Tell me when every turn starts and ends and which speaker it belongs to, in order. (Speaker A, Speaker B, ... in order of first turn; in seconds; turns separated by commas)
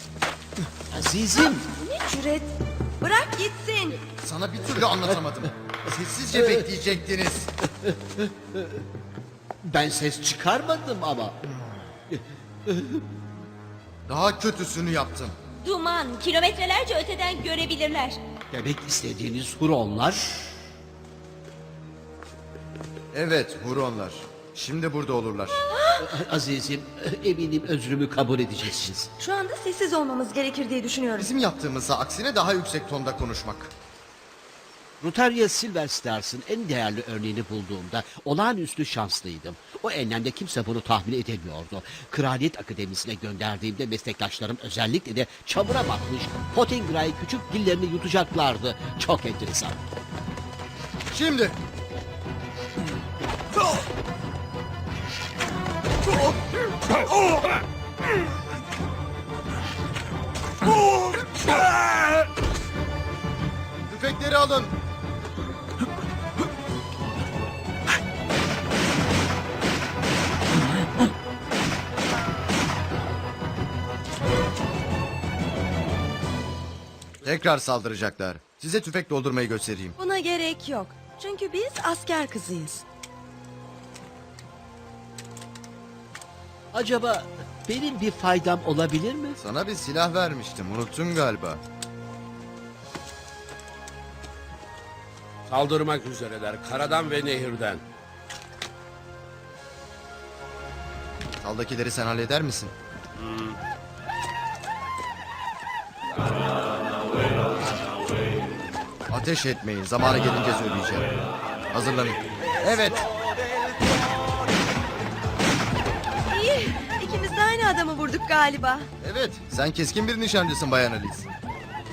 Speaker A: 0.9-1.6, Speaker B: 1.8-4.0, Speaker C: 4.2-7.5, Speaker A: 6.3-6.6, Speaker A: 7.6-8.8, Speaker A: 9.6-11.4, Speaker A: 12.1-13.0, Speaker C: 14.1-15.3, Speaker D: 15.6-18.2, Speaker A: 18.5-20.3, Speaker C: 23.1-25.6, Speaker B: 25.7-26.1, Speaker A: 26.0-29.1, Speaker B: 29.2-31.3, Speaker C: 31.2-33.7, Speaker A: 35.0-49.8, Speaker C: 51.1-51.5, Speaker C: 63.9-64.7, Speaker C: 77.2-80.0, Speaker B: 80.0-82.8, Speaker A: 86.7-89.4, Speaker C: 89.4-91.6, Speaker E: 95.5-97.8, Speaker C: 101.4-102.7, Speaker E: 103.2-103.6, Speaker C: 109.1-111.2, Speaker C: 111.7-113.1, Speaker B: 116.3-118.9, Speaker C: 119.0-121.3